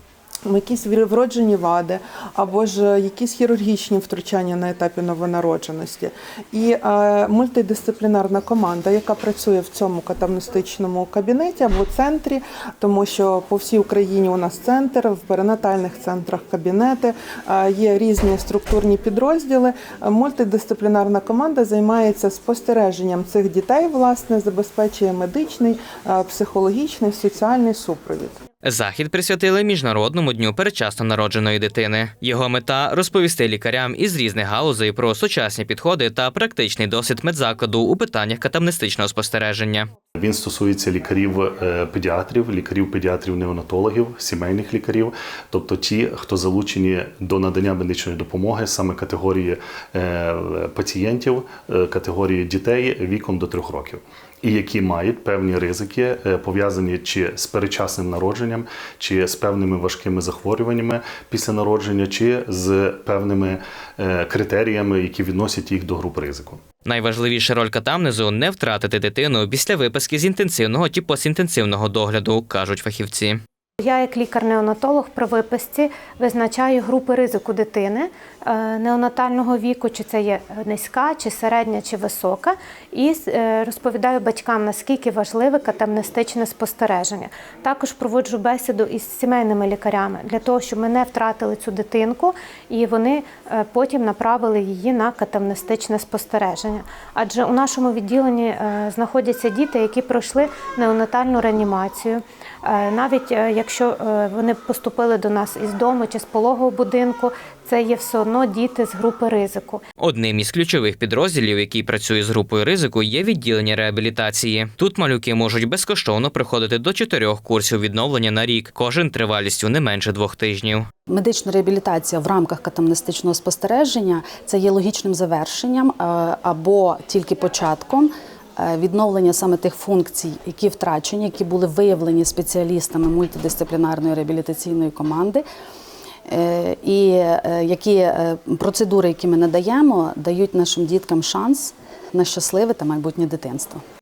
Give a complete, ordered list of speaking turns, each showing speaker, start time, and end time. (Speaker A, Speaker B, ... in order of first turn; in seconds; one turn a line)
Speaker A: 0.5-28.3
Speaker B: 28.6-39.9
Speaker C: 40.2-66.6
Speaker B: 66.8-73.4
Speaker D: 73.8-109.8
Speaker B: 110.0-120.9
Speaker E: 121.1-135.4
Speaker E: 136.3-143.8